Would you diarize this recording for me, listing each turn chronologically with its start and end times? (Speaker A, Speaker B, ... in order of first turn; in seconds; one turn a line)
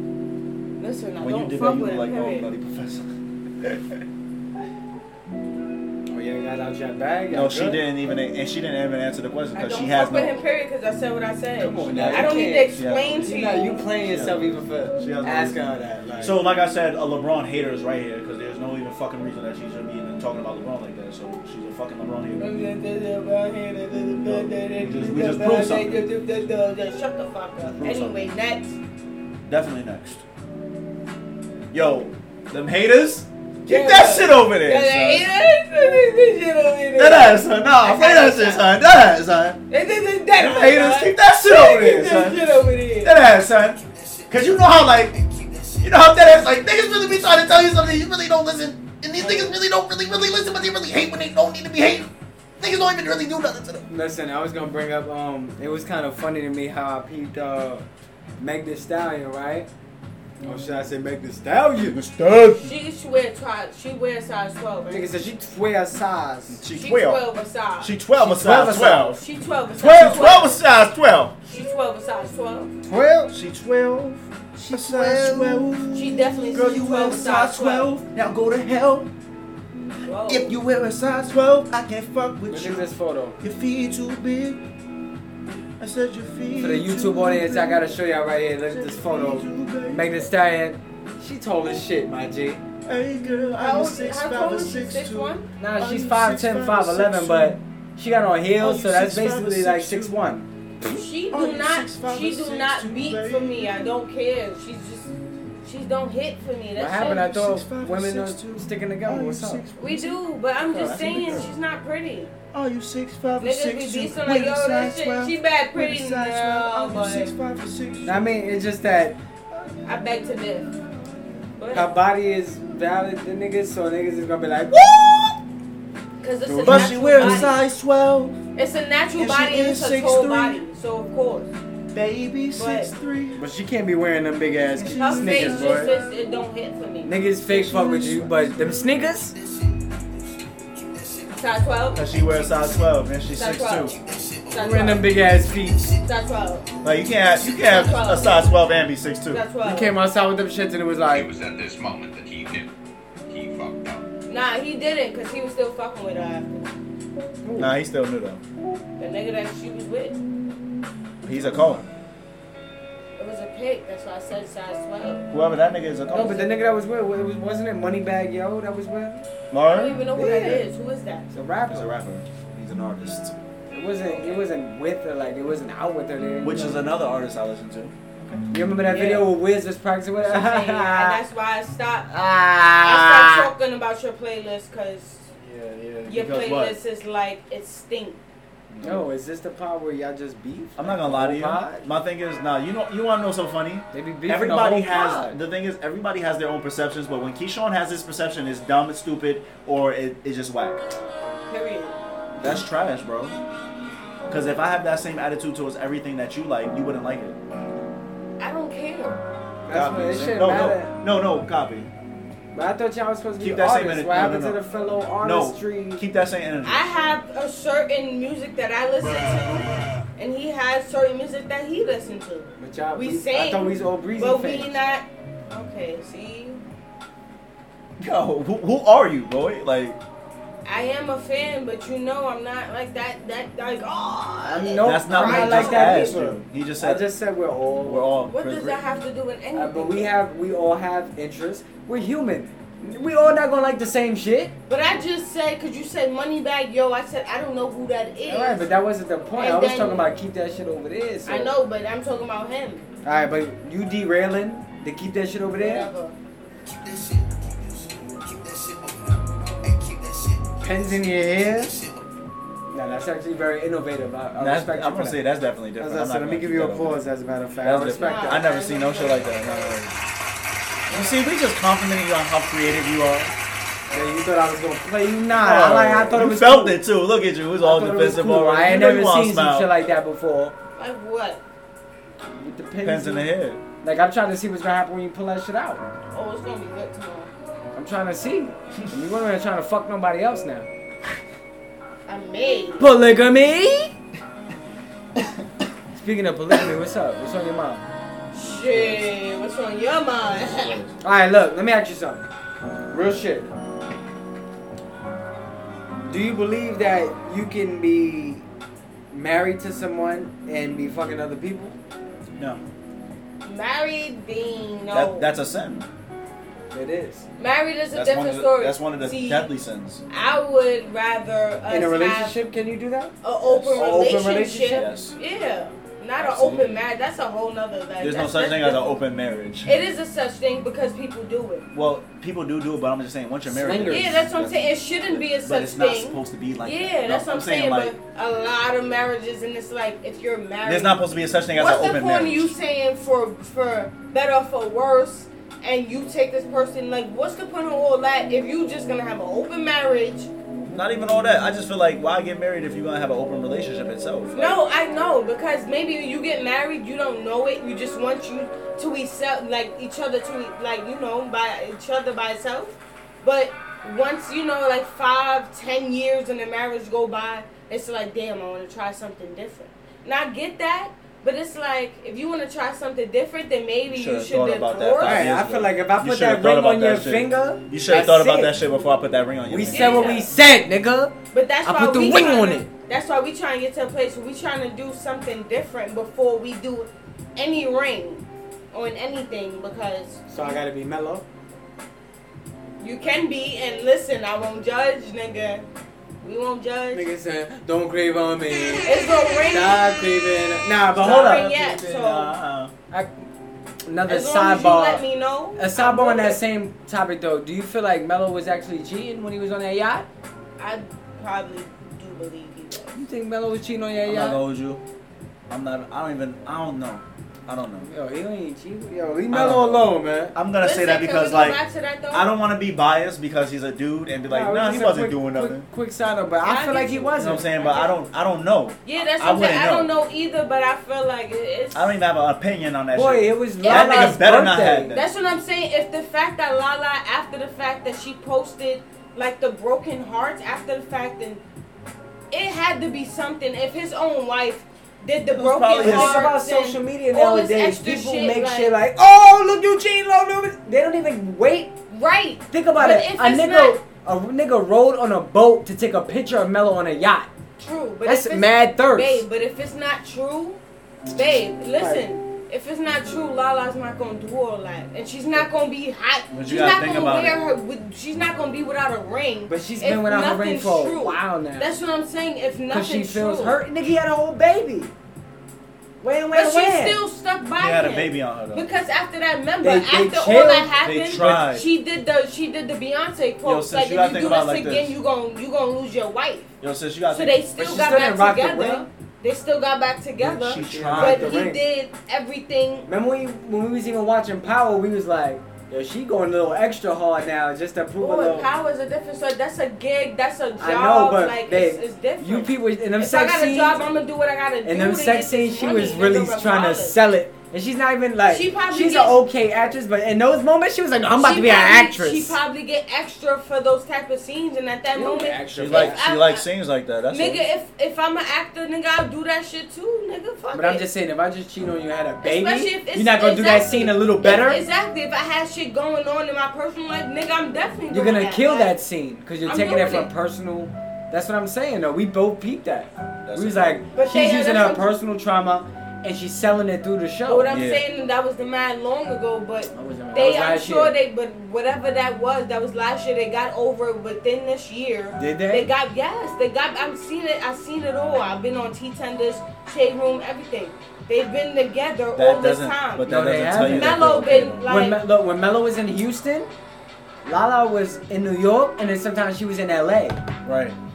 Speaker A: 0.8-2.5
Speaker B: 1.2-3.1
Speaker B: 3.6-4.0
Speaker C: 6.1-7.8
Speaker B: 7.3-10.4
Speaker A: 9.5-13.8
Speaker C: 11.6-16.4
Speaker B: 11.9-15.6
Speaker B: 16.2-22.5
Speaker A: 22.4-28.8
Speaker B: 24.2-26.0
Speaker B: 27.6-28.2
Speaker B: 29.5-30.2
Speaker B: 31.7-35.3
Speaker A: 33.7-38.7
Speaker B: 37.0-39.6
Speaker A: 39.7-43.1
Speaker B: 40.4-45.2
Speaker B: 45.8-53.9
Speaker C: 53.9-57.9
Speaker C: 58.4-59.7
Speaker C: 60.4-62.0
Speaker B: 61.8-62.7
Speaker A: 62.6-65.0
Speaker C: 64.9-66.6
Speaker B: 66.5-67.2
Speaker A: 66.7-68.0
Speaker B: 67.8-69.2
Speaker C: 68.2-69.2
Speaker A: 69.1-70.6
Speaker B: 69.8-71.4
Speaker A: 71.5-72.7
Speaker C: 72.8-73.3
Speaker B: 73.3-79.1
Speaker C: 74.7-75.7
Speaker A: 75.9-77.9
Speaker A: 80.0-80.5
Speaker B: 80.3-82.9
Speaker C: 82.5-83.4
Speaker B: 83.4-84.6
Speaker B: 85.8-88.0
Speaker C: 86.6-92.6
Speaker B: 88.7-90.2
Speaker B: 92.8-97.6
Speaker A: 93.6-95.5
Speaker C: 95.6-100.5
Speaker B: 98.6-100.2
Speaker A: 100.8-105.1
Speaker B: 101.3-103.9
Speaker A: 105.6-107.3
Speaker C: 106.8-109.6
Speaker B: 107.0-110.2
Speaker A: 109.8-112.3
Speaker B: 110.7-111.5
Speaker C: 110.8-111.2
Speaker B: 112.5-118.3
Speaker A: 113.4-117.3
Speaker C: 118.0-119.2
Speaker B: 119.5-120.0
Speaker A: 119.8-120.7
Speaker B: 120.6-121.5
Speaker A: 121.6-121.9
Speaker C: 121.7-125.1
Speaker B: 124.8-125.3
Speaker A: 126.2-127.6
Speaker C: 126.5-127.5
Speaker B: 126.6-128.4
Speaker A: 128.6-131.5
Speaker B: 129.2-130.6
Speaker B: 131.9-133.4
Speaker A: 132.6-132.9
Speaker C: 133.4-135.9
Speaker B: 134.8-135.8
Speaker A: 135.0-137.1
Speaker C: 137.0-139.4
Speaker B: 137.6-138.7
Speaker A: 137.6-138.2
Speaker A: 141.3-142.1
Speaker B: 141.9-144.0
Speaker A: 143.3-144.0
Speaker A: 144.5-145.1
Speaker C: 144.6-145.8
Speaker A: 146.0-146.7
Speaker B: 146.8-149.4
Speaker A: 147.4-148.5
Speaker A: 149.3-149.9
Speaker C: 149.6-151.3
Speaker D: 151.1-152.7
Speaker D: 153.3-154.1
Speaker A: 154.3-156.6
Speaker C: 157.4-157.7
Speaker B: 157.6-158.4
Speaker A: 159.0-160.2
Speaker B: 161.2-161.9
Speaker A: 163.2-165.3
Speaker B: 165.3-166.4
Speaker C: 166.1-169.3
Speaker B: 169.5-170.1
Speaker A: 169.7-171.3
Speaker C: 170.2-170.7
Speaker C: 171.3-171.9
Speaker B: 171.7-173.3
Speaker C: 173.7-176.9
Speaker A: 174.1-174.4
Speaker B: 176.4-178.4
Speaker C: 178.5-181.2
Speaker A: 178.9-179.3
Speaker A: 180.2-182.1
Speaker C: 182.1-183.5
Speaker A: 182.8-185.3
Speaker C: 185.4-186.7
Speaker B: 186.0-186.7
Speaker A: 186.1-188.2
Speaker B: 188.7-189.1
Speaker C: 188.8-191.9
Speaker B: 190.8-200.8
Speaker C: 193.9-195.4
Speaker A: 201.5-201.9
Speaker B: 202.4-203.4
Speaker B: 204.3-207.4
Speaker A: 208.4-209.2
Speaker C: 209.7-210.9
Speaker B: 209.7-211.9
Speaker C: 212.5-216.0
Speaker B: 213.4-214.6
Speaker B: 215.2-216.9
Speaker A: 216.7-226.6
Speaker C: 222.6-224.8
Speaker B: 228.0-230.0
Speaker A: 230.7-236.1
Speaker C: 234.5-238.1
Speaker B: 234.8-237.1
Speaker B: 237.8-238.8
Speaker A: 238.3-240.1
Speaker C: 239.6-244.5
Speaker A: 244.7-248.6
Speaker C: 248.3-251.5
Speaker A: 249.4-250.1
Speaker A: 251.3-252.9
Speaker C: 253.0-255.9
Speaker A: 255.6-256.1
Speaker C: 260.6-261.8
Speaker C: 262.7-265.2
Speaker B: 264.4-267.1
Speaker C: 265.8-268.4
Speaker B: 267.6-269.9
Speaker A: 267.9-269.8
Speaker B: 270.9-273.3
Speaker A: 270.9-271.2
Speaker C: 273.9-276.8
Speaker B: 275.3-279.7
Speaker C: 277.6-280.6
Speaker A: 280.8-281.4
Speaker C: 282.4-283.3
Speaker B: 282.8-283.6
Speaker C: 283.8-285.9
Speaker A: 286.1-287.3
Speaker C: 287.7-290.7
Speaker A: 292.1-292.9
Speaker C: 292.8-293.9
Speaker C: 295.9-297.9
Speaker A: 298.3-300.8
Speaker C: 298.6-299.0
Speaker B: 300.6-300.9
Speaker C: 301.0-302.2
Speaker C: 302.9-303.5
Speaker C: 306.1-308.5
Speaker C: 309.1-311.8
Speaker B: 312.4-312.6
Speaker A: 313.4-315.3
Speaker B: 314.9-315.9
Speaker C: 316.7-317.3
Speaker A: 317.4-319.5
Speaker B: 317.9-320.0
Speaker A: 320.1-322.4
Speaker C: 321.7-323.1
Speaker A: 323.2-328.9
Speaker B: 323.4-324.0
Speaker C: 323.8-324.9
Speaker B: 324.7-325.1
Speaker B: 326.2-326.7
Speaker B: 328.0-329.8
Speaker A: 329.6-331.6
Speaker B: 331.7-337.9
Speaker C: 333.5-334.2
Speaker A: 333.9-341.0
Speaker B: 340.6-342.5
Speaker A: 341.5-350.3
Speaker B: 350.7-354.6
Speaker A: 354.3-375.3
Speaker B: 373.9-380.2
Speaker C: 375.0-378.6
Speaker C: 379.5-382.7
Speaker A: 379.7-380.3
Speaker A: 381.3-390.6
Speaker C: 390.3-391.2
Speaker A: 392.8-395.6
Speaker A: 396.2-397.1
Speaker C: 396.9-398.9
Speaker A: 398.8-400.0
Speaker C: 399.5-401.5
Speaker B: 400.9-402.7
Speaker A: 401.0-402.3
Speaker C: 403.9-405.0
Speaker A: 404.1-406.4
Speaker C: 405.6-410.1
Speaker A: 410.6-413.0
Speaker C: 412.9-414.4
Speaker B: 414.1-414.8
Speaker B: 415.5-417.9
Speaker C: 417.9-420.4
Speaker B: 419.3-425.7
Speaker A: 420.6-422.3
Speaker C: 424.3-427.5
Speaker A: 426.4-427.9
Speaker B: 427.2-429.9
Speaker A: 428.9-431.9
Speaker B: 431.7-435.1
Speaker C: 432.9-434.9
Speaker A: 433.6-434.2
Speaker A: 434.9-441.4
Speaker A: 442.3-448.7
Speaker B: 445.3-446.3
Speaker C: 445.8-451.7
Speaker A: 451.9-453.8
Speaker C: 452.5-457.3
Speaker A: 457.6-460.6
Speaker C: 458.1-459.2
Speaker A: 461.1-473.6
Speaker C: 461.8-462.1
Speaker B: 466.3-467.4
Speaker C: 469.5-471.8
Speaker C: 472.7-474.9
Speaker C: 476.0-477.0
Speaker A: 476.3-486.5
Speaker B: 477.6-478.7
Speaker C: 479.6-480.8
Speaker B: 480.8-481.7
Speaker B: 483.4-485.0
Speaker B: 486.6-487.4
Speaker A: 487.1-492.9
Speaker C: 487.6-488.9
Speaker B: 490.2-491.4
Speaker C: 490.4-491.6
Speaker C: 492.9-498.5
Speaker A: 498.0-507.0
Speaker C: 500.6-503.8
Speaker C: 504.6-512.4
Speaker A: 508.3-509.2
Speaker A: 511.2-516.5
Speaker C: 515.0-516.0
Speaker B: 515.5-517.5
Speaker A: 517.1-520.8
Speaker C: 520.5-524.6
Speaker A: 522.2-528.8
Speaker C: 527.9-537.5
Speaker A: 529.5-530.1
Speaker B: 533.2-533.8
Speaker A: 534.0-534.9
Speaker A: 537.3-555.0
Speaker B: 537.5-537.9
Speaker C: 539.7-541.0
Speaker C: 545.2-545.7
Speaker B: 552.1-554.7
Speaker C: 553.1-554.0
Speaker C: 554.6-556.5
Speaker C: 557.2-560.2
Speaker B: 560.4-560.8